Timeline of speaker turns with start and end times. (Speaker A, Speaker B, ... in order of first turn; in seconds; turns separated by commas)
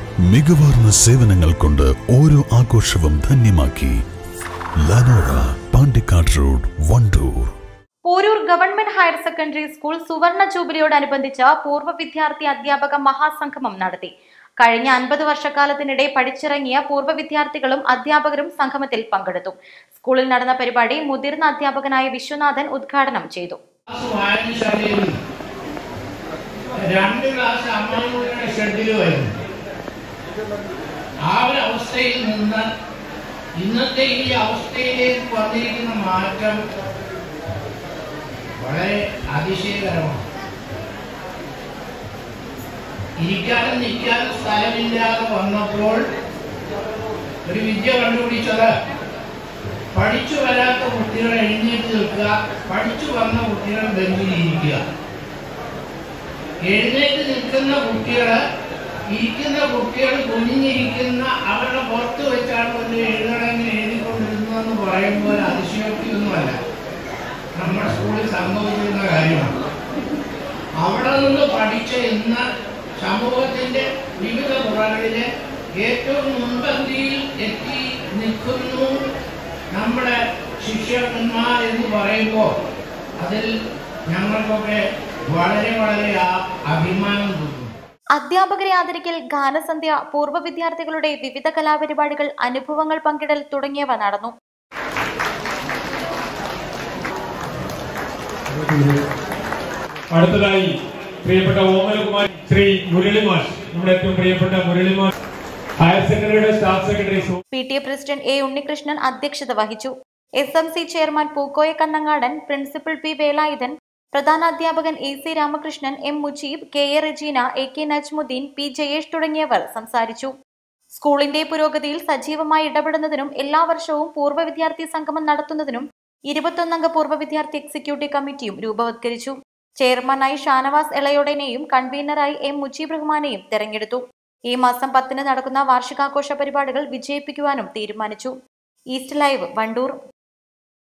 Speaker A: 0.3-3.9, Speaker A: 4.8-7.5, Speaker B: 8.1-14.1, Speaker B: 14.6-23.6, Speaker C: 23.9-25.1, Speaker C: 26.8-29.3, Speaker C: 31.2-32.6, Speaker C: 33.6-36.6, Speaker C: 38.6-40.2, Speaker C: 43.2-46.0, Speaker C: 47.5-48.7, Speaker C: 49.9-54.8, Speaker C: 56.7-58.4, Speaker C: 59.1-66.5, Speaker C: 67.5-69.5, Speaker C: 70.8-72.4, Speaker C: 73.0-75.2, Speaker C: 75.8-78.9, Speaker C: 79.7-82.5, Speaker C: 83.2-83.5, Speaker C: 84.1-87.7, Speaker B: 88.2-94.3, Speaker D: 98.5-99.0, Speaker D: 100.1-100.7, Speaker D: 101.2-105.1, Speaker D: 105.8-107.3, Speaker B: 107.5-120.3, Speaker B: 120.9-134.0, Speaker B: 134.5-138.3, Speaker B: 138.9-139.9